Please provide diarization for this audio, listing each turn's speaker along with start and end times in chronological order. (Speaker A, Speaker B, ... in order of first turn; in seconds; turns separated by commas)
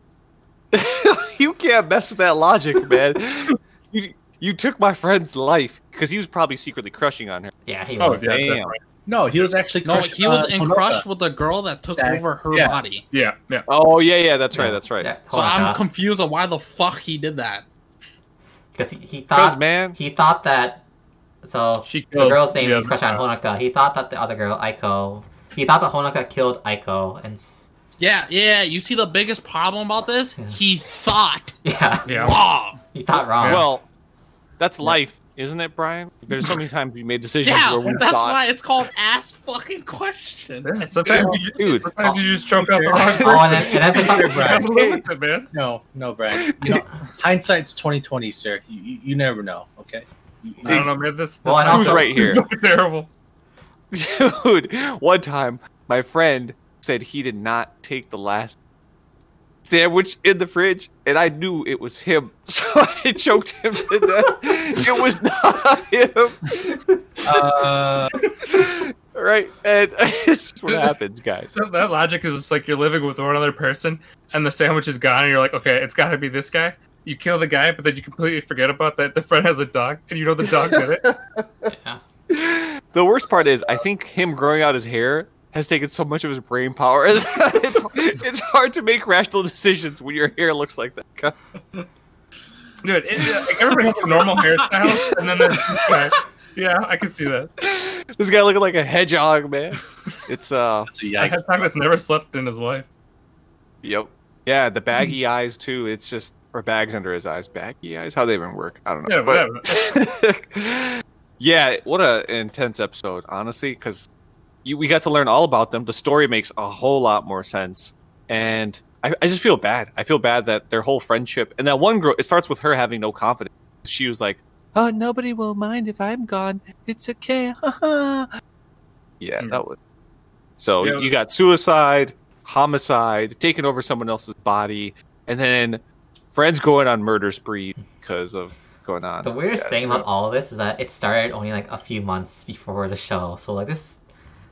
Speaker A: 0.7-7.5, Speaker B: 7.7-8.4, Speaker C: 8.0-8.8, Speaker A: 8.3-8.7, Speaker D: 9.1-11.1, Speaker E: 9.8-13.1, Speaker D: 12.0-12.8, Speaker C: 13.1-13.7, Speaker A: 13.7-15.1, Speaker B: 14.5-15.8, Speaker E: 15.3-17.7, Speaker B: 18.8-20.8, Speaker A: 19.4-20.0, Speaker B: 21.4-27.7, Speaker C: 21.9-23.2, Speaker E: 28.0-31.6, Speaker B: 31.6-33.7, Speaker C: 32.1-32.4, Speaker E: 32.1-32.8, Speaker C: 33.4-33.7, Speaker A: 33.4-33.9, Speaker A: 34.6-38.5, Speaker E: 37.4-41.6, Speaker C: 40.6-45.5, Speaker A: 41.6-41.9, Speaker B: 41.8-42.2, Speaker D: 42.6-44.8, Speaker B: 42.9-44.6, Speaker A: 43.1-43.7, Speaker A: 44.8-45.0, Speaker D: 45.5-50.9, Speaker A: 46.3-46.8, Speaker C: 50.6-53.1, Speaker B: 51.4-52.4, Speaker A: 51.7-52.4, Speaker A: 53.9-58.6, Speaker A: 59.6-66.8, Speaker D: 67.2-68.1, Speaker A: 68.4-71.5, Speaker C: 70.7-71.0, Speaker C: 71.5-81.2, Speaker B: 81.7-82.0, Speaker A: 82.3-91.3, Speaker C: 92.8-97.5, Speaker A: 93.2-93.5, Speaker E: 95.2-96.2, Speaker A: 97.6-100.9, Speaker D: 100.9-101.5, Speaker C: 101.2-102.9, Speaker A: 103.8-114.1, Speaker C: 109.1-109.9, Speaker A: 114.6-128.3, Speaker A: 129.2-129.8, Speaker A: 130.6-140.1, Speaker C: 130.8-131.1, Speaker B: 139.2-144.0